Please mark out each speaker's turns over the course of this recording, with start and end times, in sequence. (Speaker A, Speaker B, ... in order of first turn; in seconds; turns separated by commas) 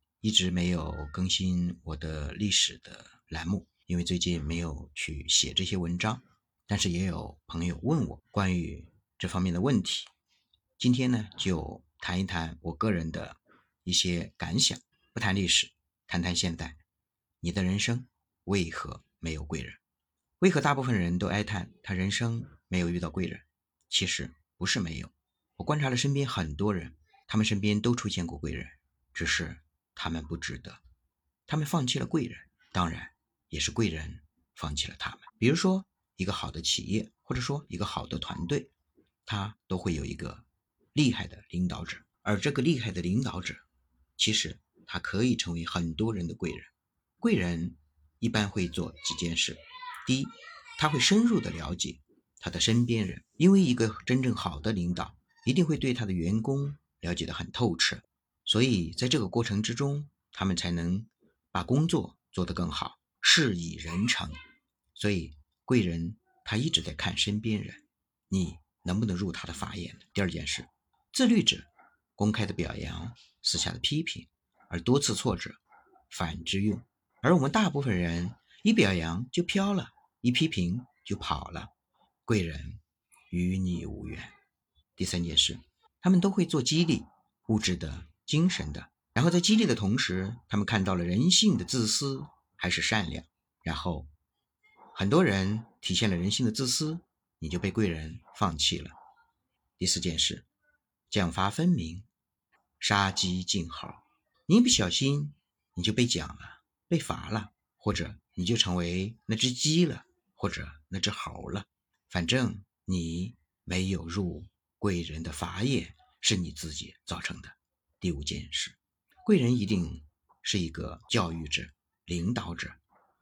Speaker A: 0.2-10.1, Speaker A: 10.8-16.8, Speaker A: 17.4-19.8, Speaker A: 20.4-30.8, Speaker A: 31.5-38.7, Speaker A: 39.3-43.6, Speaker A: 44.2-64.4, Speaker A: 65.0-81.7, Speaker A: 82.3-84.3, Speaker A: 85.0-94.1, Speaker A: 94.9-99.0, Speaker A: 99.8-100.5, Speaker A: 101.1-102.1, Speaker A: 102.8-122.8